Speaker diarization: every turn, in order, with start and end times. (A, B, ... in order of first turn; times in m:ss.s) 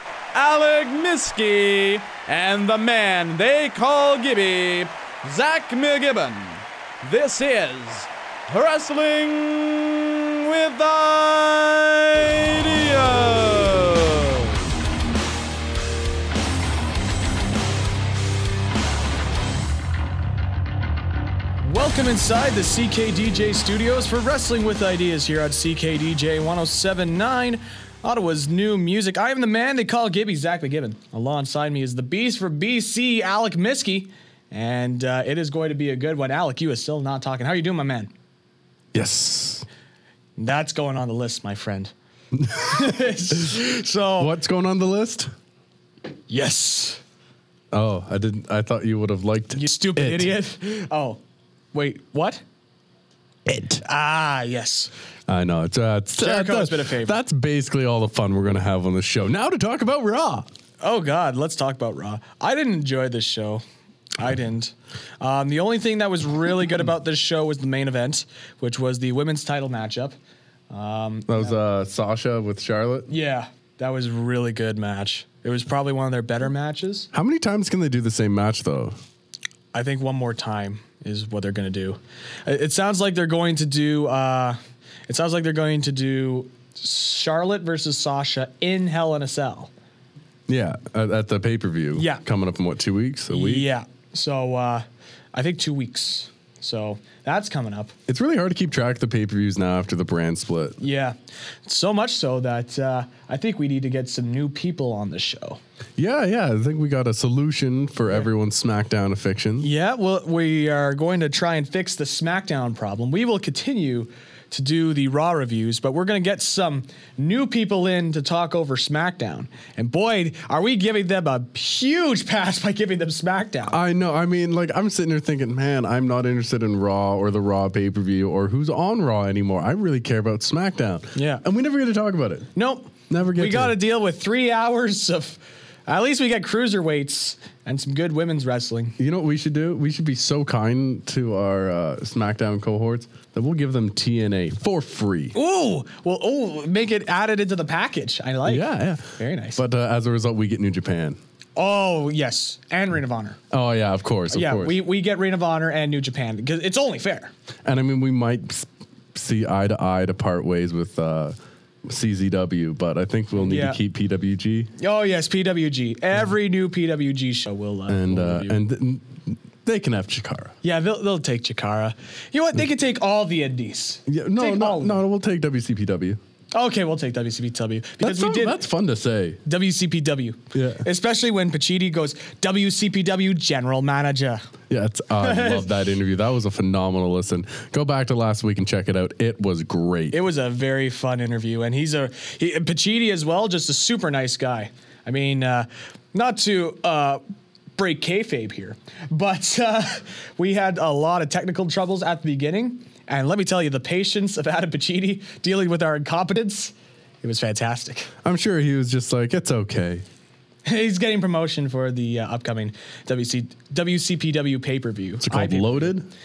0:00.3-0:14.6 A
0:21.6-0:38.1 B
0:38.9-0:39.7 C
0:40.4-0:41.9 B
0:42.3-0:43.6 C
0:42.5-0:44.3 B
0:44.2-0:45.3 C
0:46.3-0:47.0 B
0:47.7-0:50.3 C
0:49.5-0:51.2 B
0:51.7-0:52.4 B
0:53.5-0:53.8 C
0:53.8-0:54.9 B
0:55.3-1:00.5 C
0:56.2-0:57.2 B
1:00.8-1:03.6 B
1:04.2-1:10.1 B
1:10.7-1:11.6 B
1:11.3-1:13.1 C
1:13.1-1:17.1 B
1:17.1-1:18.9 C
1:19.7-1:29.7 B
1:30.5-1:33.7 C
1:31.9-1:32.2 B
1:33.3-1:37.9 B
1:38.1-1:40.8 C
1:40.8-1:45.6 B
1:46.0-1:49.7 C
1:49.6-2:03.8 B
2:03.7-2:12.5 C
2:11.1-2:11.4 B
2:12.5-2:19.0 B
2:13.1-2:13.7 C
2:19.0-2:25.4 C
2:25.3-2:29.6 B
2:28.4-2:31.2 C
2:31.6-2:33.4 B
2:33.5-2:34.8 C
2:34.3-2:37.3 B
2:37.6-2:44.7 C
2:43.4-2:43.8 B
2:44.8-2:48.6 B
2:47.9-2:50.5 C
2:50.6-2:55.0 B
2:54.1-2:56.2 C
2:56.5-2:58.6 B
2:58.0-2:59.4 C
2:59.4-3:04.4 B
3:00.5-3:00.8 C
3:04.7-3:10.2 C
3:05.2-3:05.7 B
3:10.1-3:17.2 B
3:17.8-3:28.1 B
3:28.2-3:30.0 C
3:30.6-3:35.9 B
3:35.2-3:36.1 C